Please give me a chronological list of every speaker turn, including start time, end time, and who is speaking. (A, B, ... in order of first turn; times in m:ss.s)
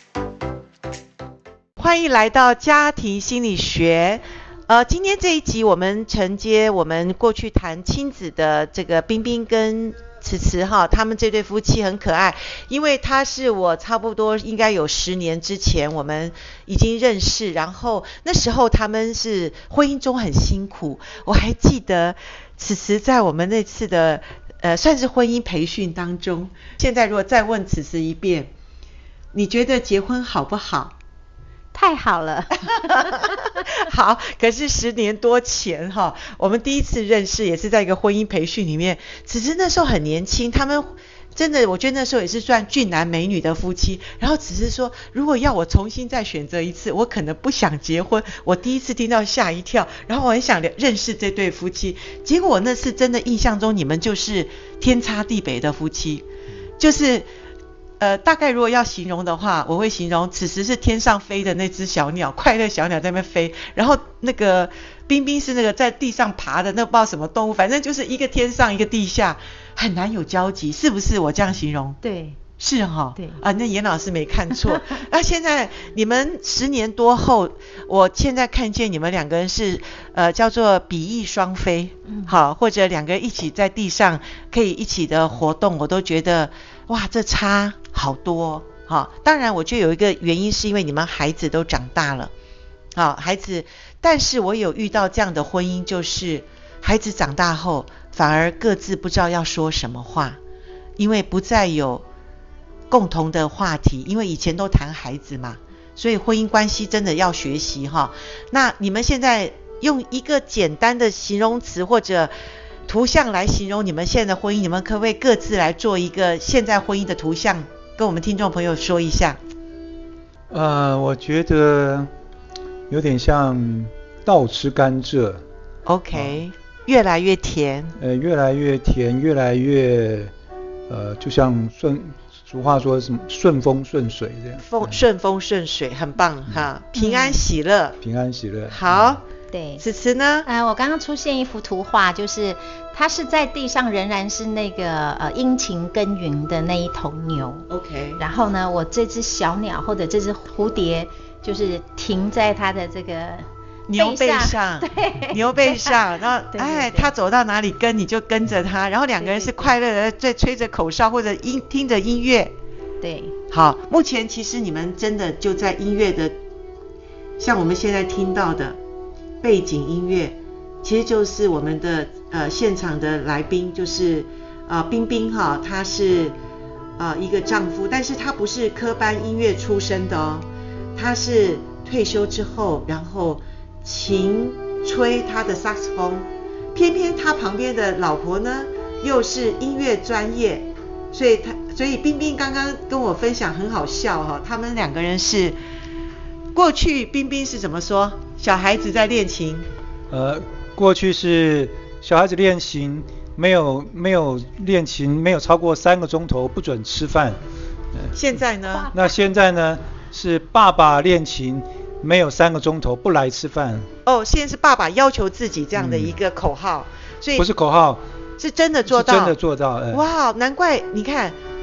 0:01.8-0:28.5 A
0:29.3-0:30.9 A
0:31.7-0:33.7 B
0:32.8-0:56.2 A
0:56.8-0:57.2 A
0:58.0-1:12.0 A
1:12.0-1:12.4 B
1:12.6-1:32.3 A
1:14.6-1:15.0 B
1:22.1-1:22.3 B
1:32.9-1:40.4 A
1:41.0-1:42.0 A
1:42.9-1:52.3 A
1:52.9-1:59.4 A
2:00.5-2:02.1 C
2:02.9-2:05.4 C
2:05.8-2:08.0 A
2:06.1-2:06.4 C
2:08.0-2:10.3 C
2:10.9-2:15.0 C
2:14.6-2:18.0 A
2:16.9-2:17.4 B
2:18.0-2:19.2 C
2:18.7-2:19.2 A
2:19.5-2:19.8 B
2:19.8-2:20.5 A
2:20.4-2:27.6 B
2:27.7-2:28.2 A
2:28.2-2:36.0 B
2:33.9-2:42.5 A
2:36.5-2:37.1 B
2:39.2-2:39.7 B
2:43.0-2:43.3 B
2:43.5-2:46.3 A
2:47.4-2:48.8 A
2:49.4-2:56.3 A
2:57.0-3:15.6 A
3:16.5-3:19.6 A
3:20.1-3:27.4 C
3:28.1-3:28.9 A
3:28.7-3:29.1 B
3:28.9-3:33.9 C
3:34.0-3:37.5 A
3:35.8-3:36.1 C
3:37.4-3:38.0 C
3:38.4-3:39.4 A
3:38.8-3:40.1 C
3:39.9-3:41.4 A